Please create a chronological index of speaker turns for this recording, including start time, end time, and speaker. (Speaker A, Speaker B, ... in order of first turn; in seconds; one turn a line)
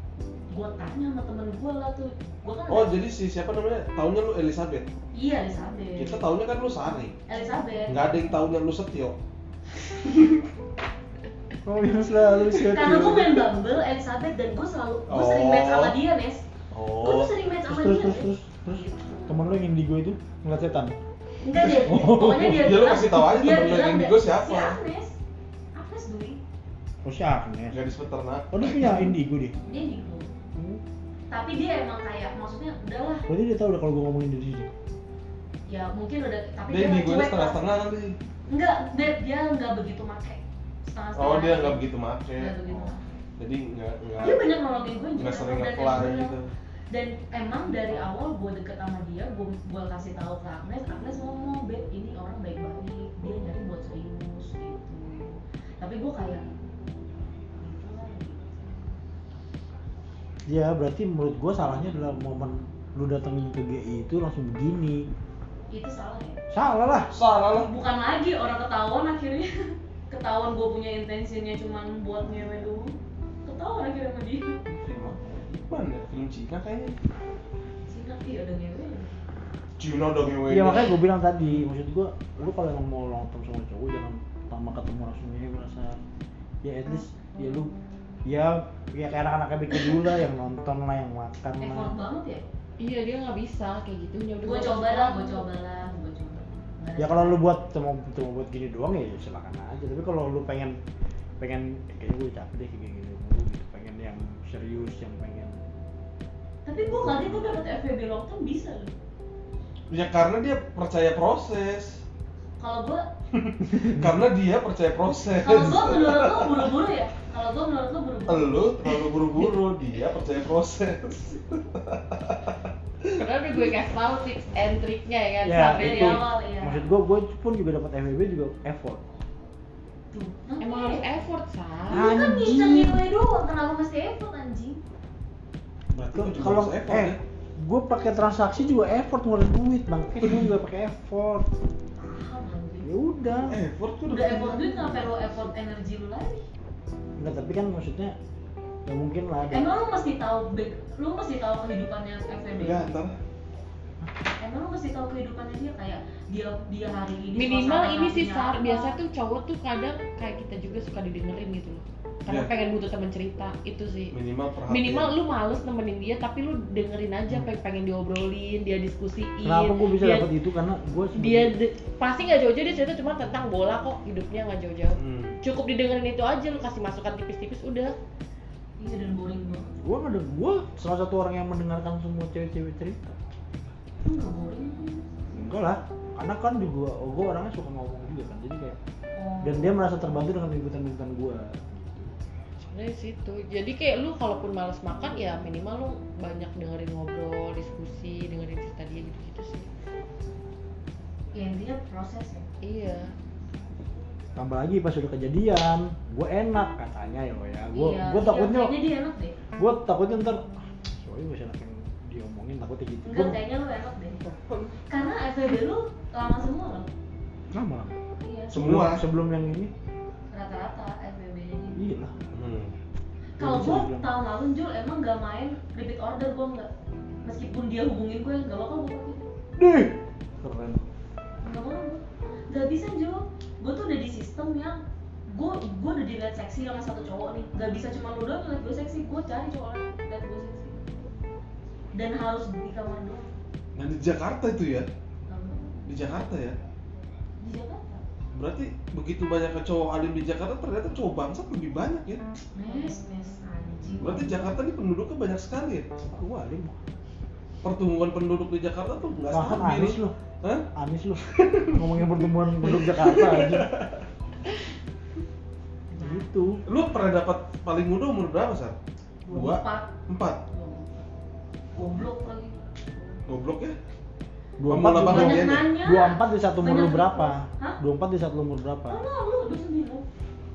Speaker A: 0.5-3.0
Speaker B: 2.7-4.9
Speaker A: 5.1-6.2
Speaker B: 6.0-7.2
Speaker A: 7.3-8.2
Speaker B: 7.9-9.2
Speaker C: 11.7-13.4
Speaker A: 12.6-16.4
Speaker B: 15.1-16.0
Speaker B: 16.7-17.3
Speaker A: 17.0-19.4
Speaker C: 17.7-20.9
Speaker A: 21.4-25.1
Speaker C: 21.6-22.7
Speaker B: 22.4-24.8
Speaker A: 25.8-26.4
Speaker C: 27.1-27.8
Speaker B: 27.7-29.1
Speaker C: 28.5-29.6
Speaker A: 29.6-30.3
Speaker A: 31.3-33.2
Speaker C: 33.3-34.7
Speaker A: 35.7-37.6
Speaker B: 36.7-38.2
Speaker A: 38.5-41.9
Speaker B: 41.1-44.5
Speaker A: 42.4-43.0
Speaker A: 44.2-46.4
Speaker B: 45.2-46.5
Speaker A: 46.9-56.5
Speaker A: 57.6-58.9
Speaker C: 60.5-65.1
Speaker A: 65.7-66.4
Speaker C: 66.5-67.1
Speaker B: 67.1-67.7
Speaker A: 67.7-74.6
Speaker B: 74.8-77.0
Speaker A: 77.9-79.1
Speaker B: 79.8-81.0
Speaker C: 80.5-86.0
Speaker C: 86.6-87.7
Speaker C: 88.3-91.9
Speaker A: 91.6-92.4
Speaker D: 92.8-95.5
Speaker A: 94.4-97.4
Speaker C: 97.0-100.8
Speaker C: 101.4-105.6
Speaker A: 106.7-108.9
Speaker C: 107.0-107.4
Speaker B: 109.9-112.0
Speaker A: 112.6-113.0
Speaker B: 113.3-116.7
Speaker C: 113.7-114.2
Speaker A: 115.4-118.5
Speaker B: 118.3-123.2
Speaker D: 123.2-126.2
Speaker C: 125.4-129.0
Speaker A: 125.7-126.8
Speaker A: 130.1-131.1
Speaker D: 130.6-132.2
Speaker A: 131.9-134.8
Speaker C: 131.9-133.0
Speaker B: 135.9-137.2
Speaker C: 136.1-141.5
Speaker A: 142.0-143.5
Speaker C: 142.8-143.6
Speaker B: 143.5-145.1
Speaker A: 144.1-146.4
Speaker C: 147.2-148.2
Speaker C: 148.9-149.7
Speaker A: 149.5-153.0
Speaker B: 152.6-153.2
Speaker A: 154.4-159.0
Speaker D: 157.3-164.2
Speaker B: 164.1-165.2
Speaker D: 164.7-170.3
Speaker C: 169.4-171.5
Speaker D: 171.2-177.9
Speaker B: 175.0-175.3
Speaker A: 178.8-179.7
Speaker C: 179.8-183.2
Speaker A: 184.0-185.1
Speaker C: 185.3-188.8
Speaker A: 189.2-190.0
Speaker C: 189.4-192.2
Speaker D: 192.7-199.7
Speaker A: 201.3-202.5
Speaker D: 202.6-203.1
Speaker C: 204.4-208.8
Speaker A: 207.7-209.4
Speaker C: 209.6-213.4
Speaker A: 213.0-214.2
Speaker B: 214.2-214.8
Speaker A: 214.9-216.9
Speaker C: 217.5-218.0
Speaker A: 218.2-218.7
Speaker B: 218.5-219.1
Speaker C: 218.5-219.7
Speaker A: 220.3-221.8
Speaker C: 221.8-222.1
Speaker B: 222.3-222.8
Speaker A: 223.4-226.7
Speaker C: 223.4-224.1
Speaker A: 227.2-229.3
Speaker C: 229.6-230.8
Speaker A: 231.4-234.8
Speaker A: 235.3-240.8
Speaker A: 241.9-243.3
Speaker B: 243.8-244.9
Speaker A: 245.3-245.8
Speaker B: 245.9-246.6
Speaker A: 247.4-248.0
Speaker B: 248.3-252.2
Speaker A: 252.6-254.6
Speaker B: 254.0-255.9
Speaker C: 256.1-256.8
Speaker B: 257.6-260.6
Speaker C: 259.3-260.1
Speaker C: 260.8-263.7
Speaker B: 261.4-262.1
Speaker B: 262.6-264.0
Speaker A: 265.9-266.3
Speaker C: 266.0-266.6
Speaker B: 266.7-268.8
Speaker A: 269.2-270.0
Speaker B: 269.3-270.4
Speaker A: 270.5-271.0
Speaker A: 271.8-272.6
Speaker B: 273.3-273.8
Speaker C: 274.6-279.0
Speaker B: 274.7-275.7
Speaker A: 275.0-277.8
Speaker A: 278.9-280.1